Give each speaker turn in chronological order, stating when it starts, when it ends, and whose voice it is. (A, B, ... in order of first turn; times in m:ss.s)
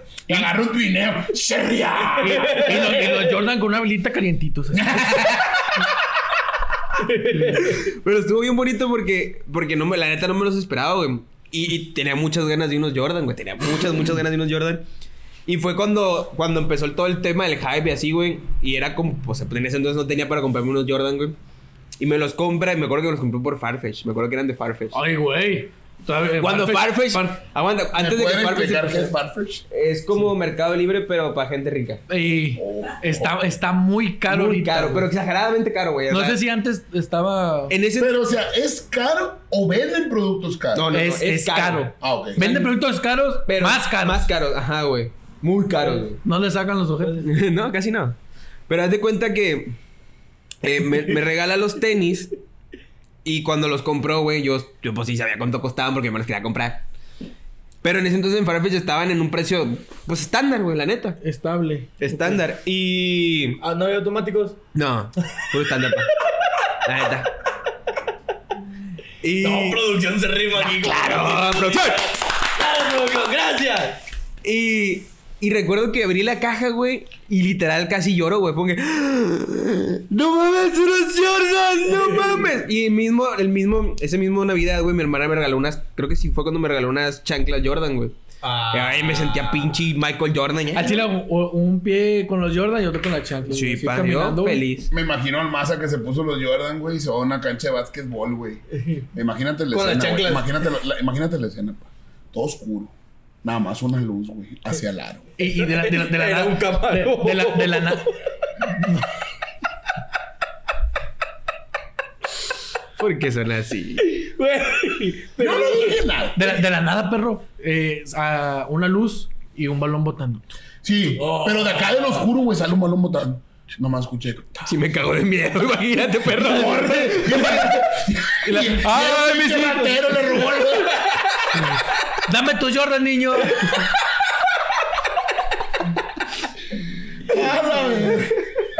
0:00.3-0:02.8 A
0:02.2-0:05.2 B
0:02.3-0:02.9 C
0:04.7-0:05.8 A
0:07.0-0:07.8 C
0:07.5-0:14.9 D
0:15.4-0:21.4 D
0:22.0-0:25.0 D
0:24.9-0:27.4 B
0:26.4-0:29.1 D
0:27.9-0:29.6 A
0:29.7-0:32.0 D
0:32.1-0:35.1 B
0:32.6-0:33.3 A
0:34.3-0:36.4 D
0:36.1-0:37.8 B
0:37.7-0:38.1 D
0:38.0-0:40.9 A
0:40.7-0:42.7 D
0:40.9-0:44.3 B
0:42.0-0:42.5 A
0:43.4-0:46.2 D
0:46.2-0:47.3 B
0:47.2-0:48.2 D
0:48.7-0:49.8 D
0:50.6-0:52.3 D
0:53.2-0:56.8 D
0:57.8-1:01.2 D
1:01.2-1:02.4 B
1:02.0-1:03.6 D
1:03.6-1:04.6 C
1:04.7-1:06.1 D
1:06.8-1:07.3 D
1:09.2-1:09.8 D
1:09.4-1:14.0 C
1:10.6-1:12.0 D
1:14.4-1:28.2 D
1:21.9-1:22.5 C
1:28.4-1:29.8 C
1:28.7-1:31.1 D
1:30.7-1:34.6 B
1:33.5-1:34.9 D
1:34.9-1:38.6 A
1:39.1-1:45.3 A
1:39.7-1:40.6 C
1:45.4-1:48.1 B
1:45.4-1:48.1 C
1:53.0-1:54.1 D
1:54.0-1:56.0 C
1:55.4-1:56.4 A
1:56.3-2:00.5 B
2:00.8-2:04.8 A
2:01.2-2:02.3 C
2:04.6-2:07.7 D
2:06.4-2:11.0 A
2:08.4-2:08.8 D
2:08.8-2:10.1 B
2:12.2-2:13.7 B
2:17.3-2:18.4 A